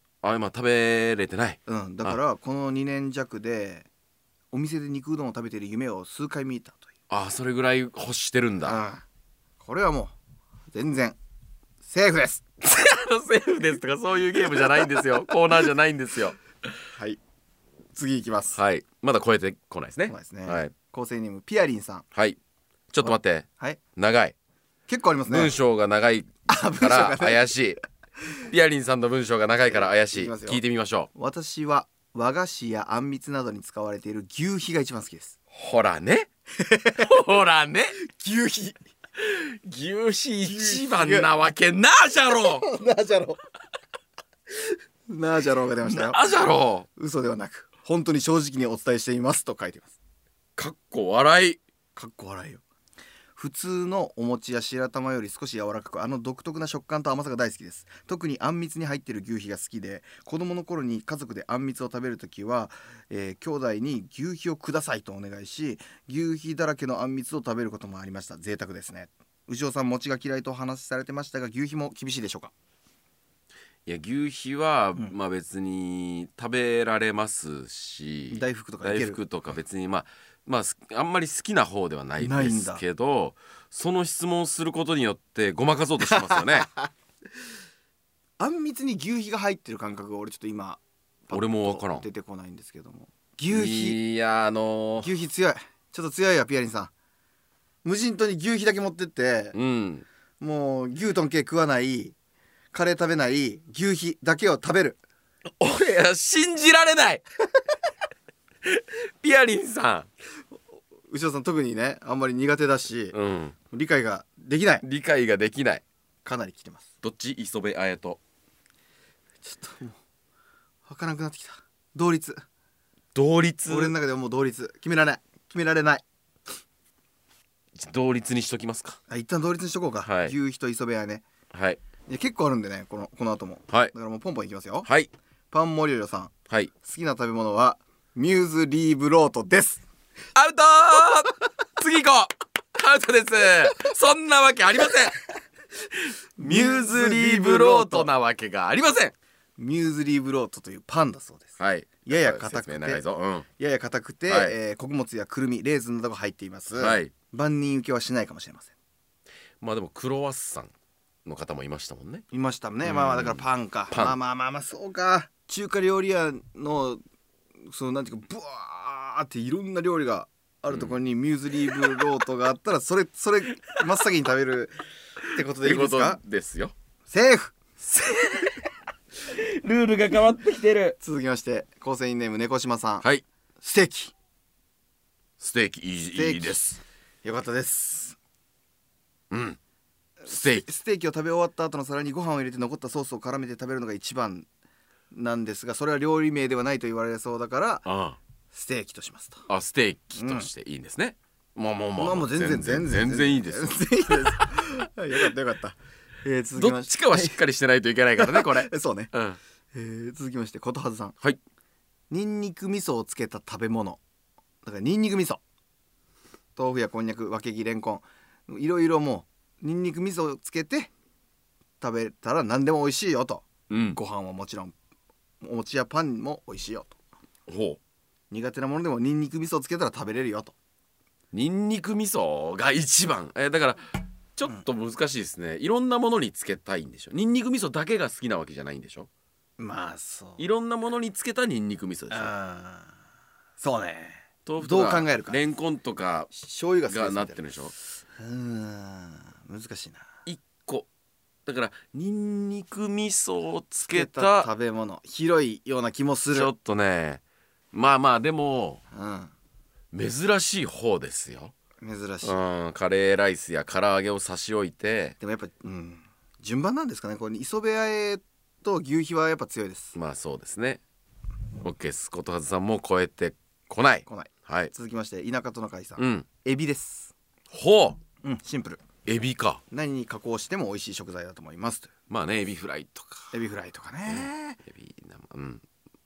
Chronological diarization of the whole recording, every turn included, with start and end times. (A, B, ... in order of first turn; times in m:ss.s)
0:00.2-0:02.2 A
0:01.7-0:03.9 B
0:04.5-0:06.9 B
0:07.1-0:08.8 A
0:08.6-0:09.0 B
0:09.6-0:10.2 B
0:10.7-0:11.2 B
0:11.8-0:12.4 B
0:12.6-0:16.4 A
0:16.9-0:17.2 B
0:18.0-0:18.6 B
0:18.5-0:20.7 A
0:20.1-0:22.0 B
0:22.9-0:24.4 A
0:23.0-0:23.8 B
0:24.9-0:25.5 B
0:25.3-0:27.8 A
0:26.5-0:27.5 B
0:28.4-0:31.1 A
0:29.7-0:30.6 B
0:31.1-0:35.4 B
0:35.5-0:36.3 A
0:36.6-0:37.2 B
0:37.0-0:38.0 A
0:38.0-0:38.8 B
0:39.2-0:42.6 A
0:40.5-0:41.3 B
0:42.4-0:43.4 B
0:45.1-0:46.2 B
0:45.9-0:46.9 A
0:47.0-0:50.0 B
0:50.6-0:51.6 A
0:52.0-0:52.6 B
0:53.4-1:12.5 B
1:13.9-1:26.7 A
1:18.3-1:19.2 B
1:22.2-1:22.8 B
1:26.1-1:26.9 B
1:28.4-1:34.0 B
1:31.3-1:32.0 A
1:33.5-1:35.1 A
1:35.0-1:36.9 B
1:37.8-1:39.6 B
1:39.5-1:40.1 A
1:40.4-1:42.2 B
1:42.7-1:45.0 B
1:45.6-1:47.2 A
1:48.6-1:50.1 A
1:51.1-1:53.2 B
1:53.1-1:53.6 A
1:53.7-1:54.8 B
1:54.8-1:55.8 A
1:56.2-1:56.9 B
1:57.0-1:58.2 A
1:59.4-2:00.0 B
2:00.9-2:02.4 B
2:03.2-2:04.0 A
2:03.7-2:06.0 B
2:07.8-2:09.0 A
2:09.1-2:11.2 B
2:10.0-2:10.3 A
2:11.5-2:11.8 A
2:12.1-2:14.9 B
2:15.5-2:19.8 B
2:20.3-2:25.2 A
2:25.9-2:29.1 A
2:26.4-2:28.1 B
2:29.6-2:33.0 B
2:31.6-2:33.5 A
2:33.6-2:38.7 B
2:34.3-2:34.6 A
2:36.8-2:37.1 A
2:39.6-2:40.7 A
2:41.2-2:42.2 A
2:42.3-2:47.0 B
2:42.8-2:44.2 A
2:47.7-2:56.2 B
2:51.7-2:52.0 A
2:55.6-2:56.7 A
2:57.1-2:57.6 B
2:57.8-2:58.6 A
2:59.2-3:01.0 A
3:01.0-3:03.1 B
3:03.6-3:04.1 B
3:05.4-3:06.6 A
3:06.1-3:08.2 B
3:09.3-3:09.6 A
3:10.2-3:14.5 B
3:10.3-3:10.6 A
3:15.1-3:17.9 B
3:17.8-3:18.2 A
3:18.5-3:19.5 B
3:19.5-3:24.4 A
3:20.2-3:20.5 B
3:22.0-3:27.4 B
3:26.6-3:29.4 A
3:28.2-3:29.1 B
3:29.7-3:31.2 B
3:32.1-3:34.0 B
3:34.6-3:35.4 B
3:36.6-3:40.9 B
3:41.8-3:44.7 B
3:43.7-3:44.0 A
3:45.4-3:47.0 B
3:47.5-3:47.8 A
3:48.3-3:50.6 B
3:51.3-3:59.1 A
3:59.6-4:00.5 B
4:00.4-4:02.3 A
4:02.1-4:02.9 B
4:03.6-4:05.4 B
4:04.5-4:06.3 A
4:06.3-4:07.4 B
4:06.9-4:07.7 A
4:08.2-4:10.0 B
4:10.3-4:10.9 A
4:11.5-4:14.5 A
4:13.9-4:16.5 B
4:16.3-4:17.2 A
4:17.7-4:18.8 A
4:18.9-4:19.3 B
4:19.9-4:21.5 A
4:21.8-4:22.4 B
4:22.2-4:25.2 A
4:25.2-4:30.0 B
4:30.0-4:30.8 A
4:31.6-4:34.7 A
4:34.1-4:37.1 B
4:36.0-4:36.3 A
4:37.5-4:38.0 A
4:38.2-4:38.8 B
4:39.0-4:39.6 A
4:39.7-4:41.9 B
4:42.1-4:43.3 A
4:43.3-4:44.6 B
4:44.1-4:45.6 A